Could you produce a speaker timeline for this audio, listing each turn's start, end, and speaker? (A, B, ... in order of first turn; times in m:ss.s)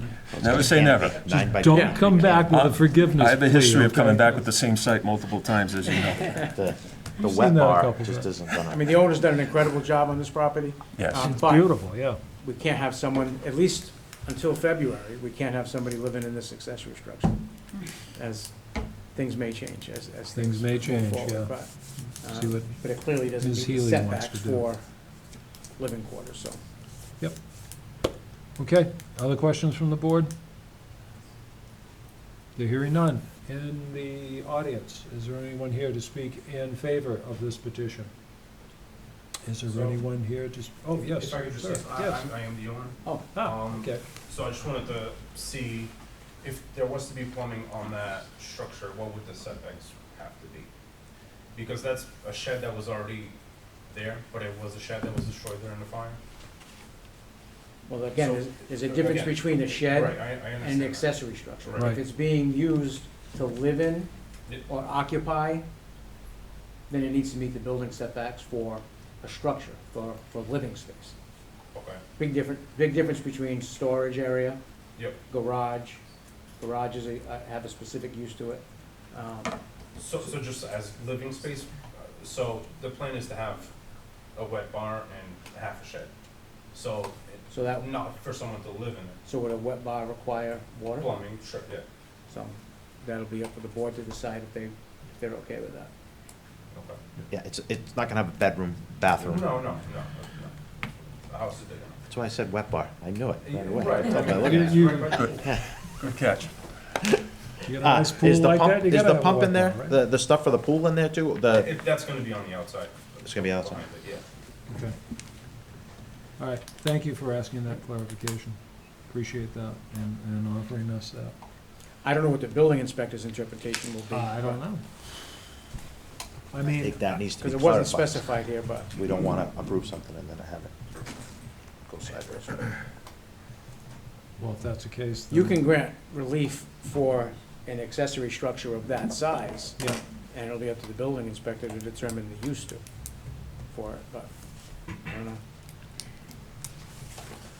0:00.3-0:02.6 A
0:00.4-0:01.2 B
0:01.3-0:04.5 C
0:01.7-0:02.0 D
0:02.5-0:06.4 B
0:06.4-0:09.0 A
0:07.2-0:08.3 C
0:08.7-0:11.9 D
0:11.0-0:11.3 B
0:11.2-0:12.2 C
0:12.4-0:17.4 D
0:18.0-0:18.6 D
0:19.1-0:24.8 D
0:20.3-0:24.7 C
0:25.8-0:26.6 D
0:28.6-0:30.3 C
0:32.6-0:38.1 C
0:39.4-0:42.3 C
0:39.7-0:40.0 E
0:41.0-0:50.7 E
0:43.3-0:44.0 C
0:51.5-0:53.4 E
0:53.9-0:56.2 E
0:57.9-1:04.1 D
0:58.2-1:02.0 E
1:04.7-1:05.6 D
1:06.9-1:11.1 D
1:11.7-1:12.0 E
1:12.2-1:14.6 D
1:15.3-1:16.0 D
1:16.6-1:19.6 D
1:20.0-1:23.7 E
1:24.3-1:26.1 E
1:26.7-1:29.2 E
1:27.5-1:27.9 D
1:29.2-1:31.3 D
1:31.0-1:31.8 E
1:32.3-1:35.9 D
1:36.7-1:37.0 E
1:37.3-1:39.6 A
1:39.2-1:40.6 E
1:41.2-1:42.0 E
1:42.1-1:45.7 A
1:43.4-1:45.4 E
1:44.3-1:45.4 C
1:45.1-1:45.4 B
1:46.0-1:46.5 B
1:47.6-1:50.0 C
1:47.8-1:51.7 A
1:51.5-1:54.2 E
1:53.2-1:53.8 A
1:54.7-1:55.0 C
1:56.4-2:01.4 C
2:02.0-2:04.6 D
2:04.1-2:04.9 C
2:06.5-2:07.2 C
2:06.6-2:08.3 A
2:07.4-2:08.9 D
2:08.9-2:10.7 A
2:11.9-2:12.6 A
2:14.4-2:15.6 C
2:15.3-2:19.8 D
2:20.3-2:22.8 D
2:23.7-2:24.3 D
2:25.0-2:25.4 D